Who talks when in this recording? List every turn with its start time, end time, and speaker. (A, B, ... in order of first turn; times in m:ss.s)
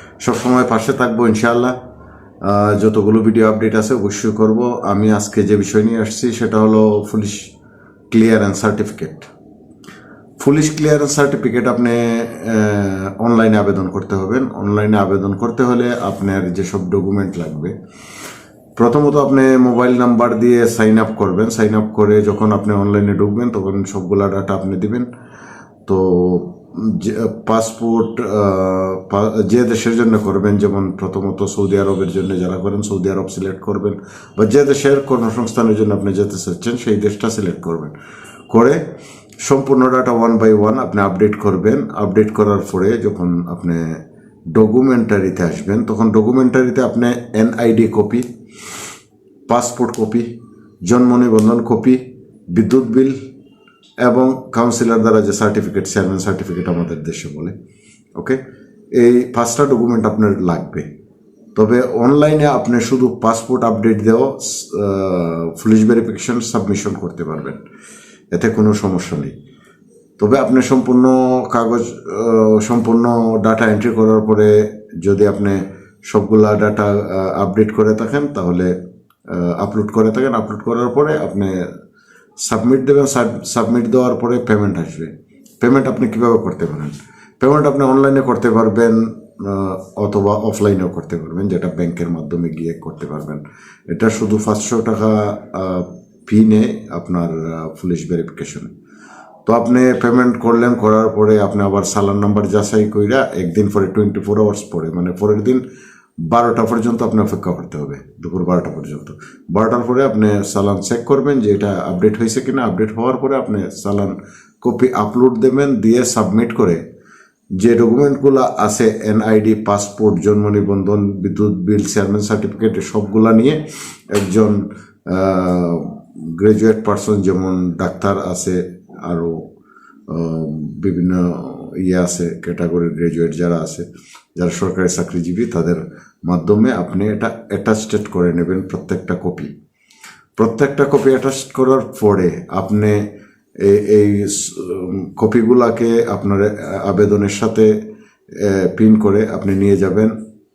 0:00.2-0:01.8 A
0:02.4-0:07.5 A
0:08.1-0:09.3 A
0:10.4-0:17.7 A
0:18.8-0:25.1 A
0:25.9-0:38.0 A
0:38.5-0:38.8 A
0:39.4-0:44.0 A
0:44.5-0:48.3 A
0:49.5-0:50.3 A
0:50.8-0:52.0 A
0:52.5-0:53.2 A
0:54.0-0:57.6 A
0:58.9-1:00.9 A
1:01.6-1:07.6 A
1:08.3-1:09.3 A
1:10.2-1:18.7 A
1:19.3-1:21.7 A
1:22.4-1:25.1 A
1:25.6-1:38.7 A
1:39.4-1:45.6 A
1:46.3-1:56.8 A
1:57.6-2:09.5 A
2:10.1-2:19.5 A
2:20.4-2:23.1 A
2:23.6-2:27.8 A
2:28.3-2:30.1 A